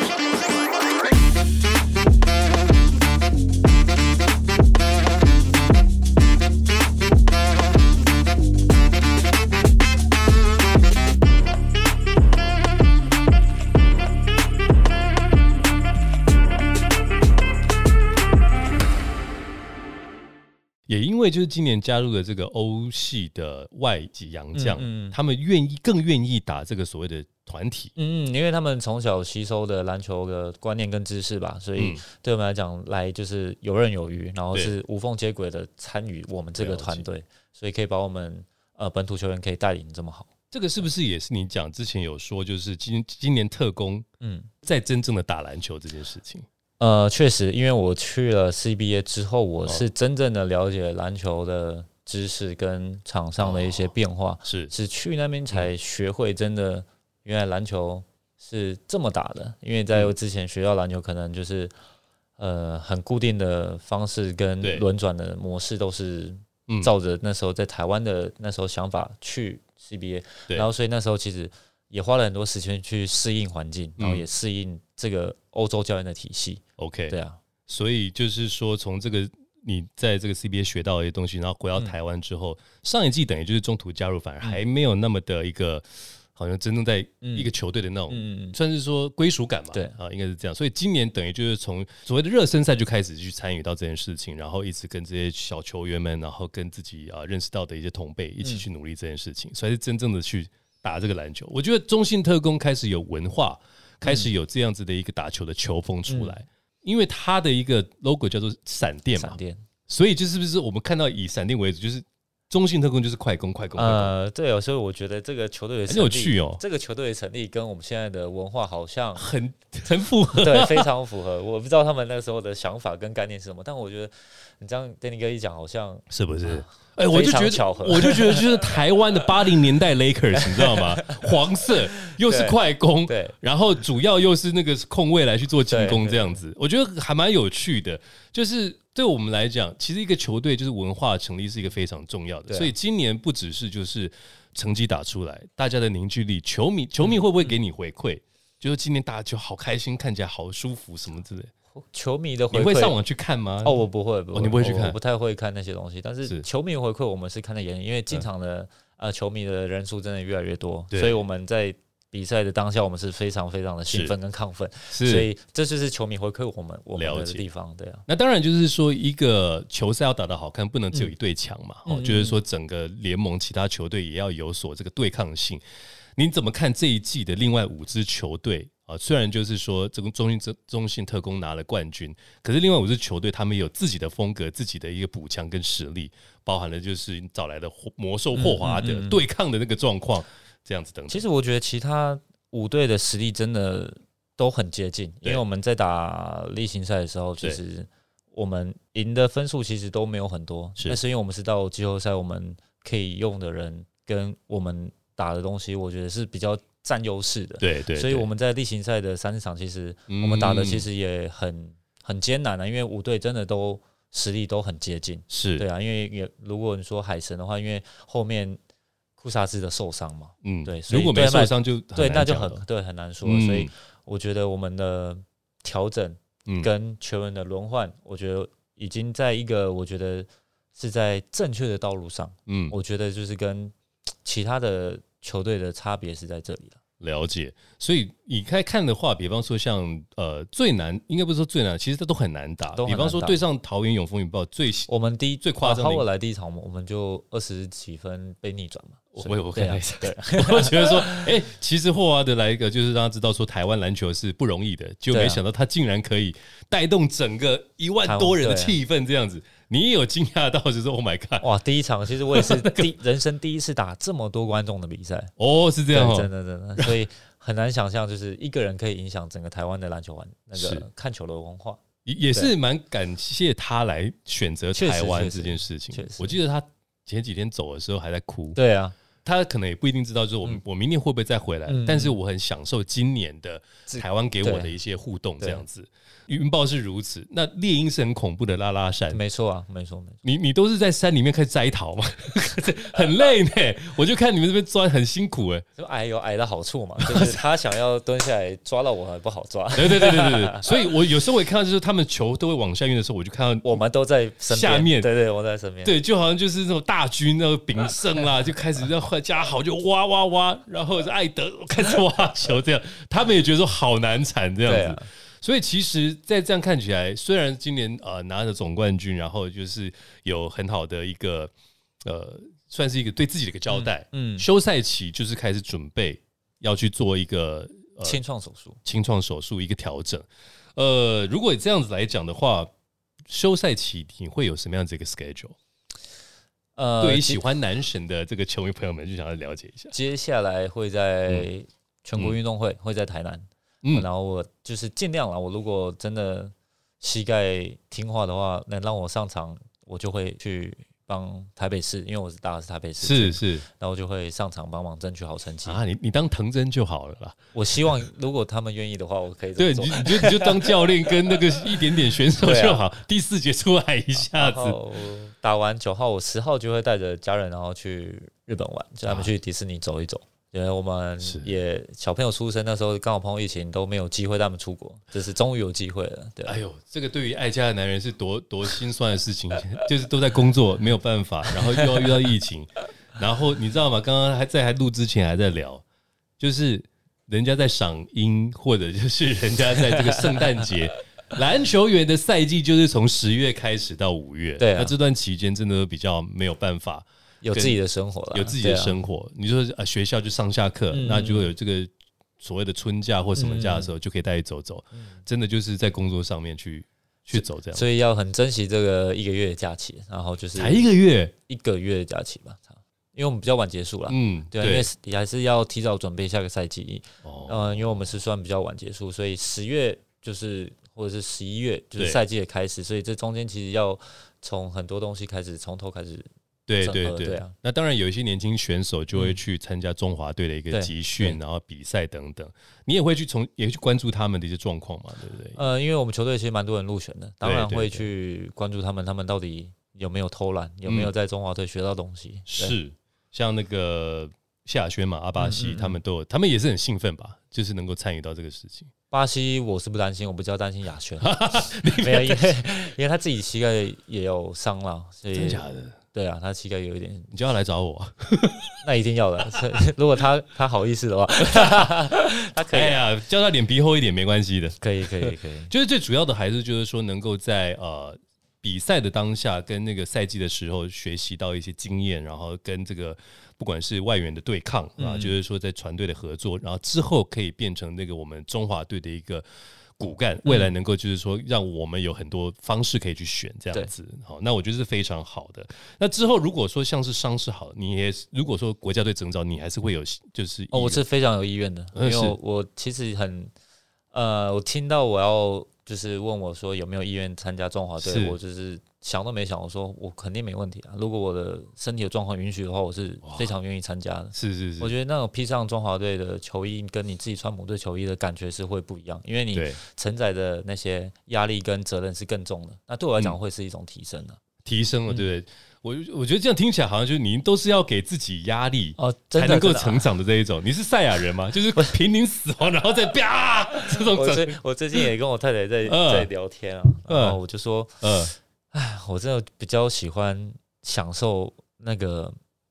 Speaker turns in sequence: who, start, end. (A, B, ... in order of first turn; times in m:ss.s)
0:20.9-0:27.9 A
0:24.5-0:25.2 B
0:28.0-0:40.3 B
0:31.8-0:32.0 A
0:36.6-0:37.0 A
0:40.5-0:44.0 A
0:44.2-0:44.5 B
0:44.6-0:46.4 A
0:46.8-1:01.7 B
0:53.4-0:53.9 A
0:54.4-0:54.7 A
1:02.4-1:17.4 B
1:14.0-1:14.2 A
1:16.8-1:54.1 A
1:27.2-1:27.5 B
1:28.1-1:28.6 B
1:44.0-1:44.3 B
1:46.1-1:46.4 B
1:49.2-1:49.6 B
1:53.8-1:59.2 B
1:55.9-1:56.6 A
1:59.2-2:00.9 A
2:00.3-2:08.8 B
2:06.1-2:31.5 A
2:10.3-2:13.3 B
2:15.7-2:16.3 B
2:22.5-2:22.7 B
2:27.0-2:27.5 B
2:31.7-2:33.0 B
2:32.5-2:33.8 A
2:33.6-2:48.0 B
2:34.3-2:35.0 A
2:40.9-2:41.2 A
2:43.9-2:44.2 A
2:44.9-2:45.3 A
2:47.0-2:47.4 A
2:48.1-2:55.6 A
2:51.8-2:52.4 B
2:56.2-3:11.2 A
3:08.3-3:09.2 B
3:11.1-3:38.6 B
3:27.6-3:28.3 A
3:30.1-3:30.8 A
3:35.3-3:35.6 A
3:39.2-3:56.8 B
3:40.4-3:42.6 A
3:43.2-3:43.7 A
3:52.5-3:52.7 A
3:57.0-4:04.9 A
4:02.7-4:03.4 B
4:04.9-4:11.3 B
4:05.4-4:06.0 A
4:09.1-4:21.5 A
4:15.1-4:15.4 B
4:18.0-4:18.8 B
4:21.4-4:25.3 B
4:22.3-4:22.9 A
4:25.4-4:26.9 A
4:25.9-4:32.5 B
4:30.6-4:30.8 A
4:32.0-4:38.6 A
4:34.7-4:36.4 B
4:38.5-4:38.9 B
4:39.2-4:49.2 A
4:41.7-4:42.2 B
4:43.9-4:44.7 B
4:49.1-4:50.2 B
4:50.2-4:55.6 A
4:55.8-5:00.6 B
4:57.0-4:57.4 A
4:59.7-5:03.8 A
5:03.6-5:05.9 B
5:04.5-5:05.1 A
5:05.8-5:21.5 A
5:14.6-5:15.0 B
5:22.0-5:28.2 A
5:23.7-5:24.5 B
5:28.0-5:28.8 B
5:28.8-5:32.7 A
5:33.3-5:35.6 A
5:36.8-5:37.4 B
5:37.0-5:39.9 A
5:39.9-5:55.8 B
5:53.0-5:53.6 A
5:55.6-5:57.4 A
5:57.5-6:00.9 B
5:59.6-6:04.8 A
6:02.4-6:02.8 B
6:04.3-6:16.6 B
6:11.2-6:11.5 A
6:16.4-6:25.8 A
6:21.6-6:22.1 B
6:26.4-6:37.8 A
6:29.9-6:30.6 B
6:34.6-6:34.9 B
6:37.4-6:39.0 B
6:38.3-6:47.8 A
6:40.9-6:41.5 B
6:43.4-6:43.9 B
6:44.9-6:45.2 B
6:47.3-6:50.9 B
6:50.6-6:51.3 A
6:51.5-7:06.3 B
6:54.1-6:54.9 A
6:57.2-6:58.1 A
7:06.7-7:15.6 A
7:06.8-7:07.5 B
7:09.1-7:09.4 B
7:10.7-7:11.4 B
7:15.6-7:22.8 B
7:17.4-7:18.1 A
7:20.8-7:21.1 A
7:22.5-7:28.9 A
7:25.4-7:26.0 B
7:29.1-7:35.6 B
7:31.2-7:32.4 A
7:35.3-7:36.0 A
7:36.1-7:37.3 B
7:37.3-7:38.8 A
7:38.8-7:43.1 B
7:42.7-7:59.4 A
7:44.8-7:45.7 B
7:55.0-7:55.3 B
8:00.0-8:11.0 A
8:00.4-8:00.7 B
8:10.7-8:13.5 B
8:11.9-8:12.4 A
8:14.1-8:34.4 B
8:18.0-8:18.4 A
8:23.2-8:23.5 A
8:24.3-8:24.9 A
8:29.5-8:29.8 A
8:34.6-8:45.0 A
8:39.0-8:40.1 B
8:43.9-8:48.0 B
8:45.8-8:46.3 A
8:47.1-8:47.4 A
8:48.0-8:48.3 A
8:48.7-8:52.3 B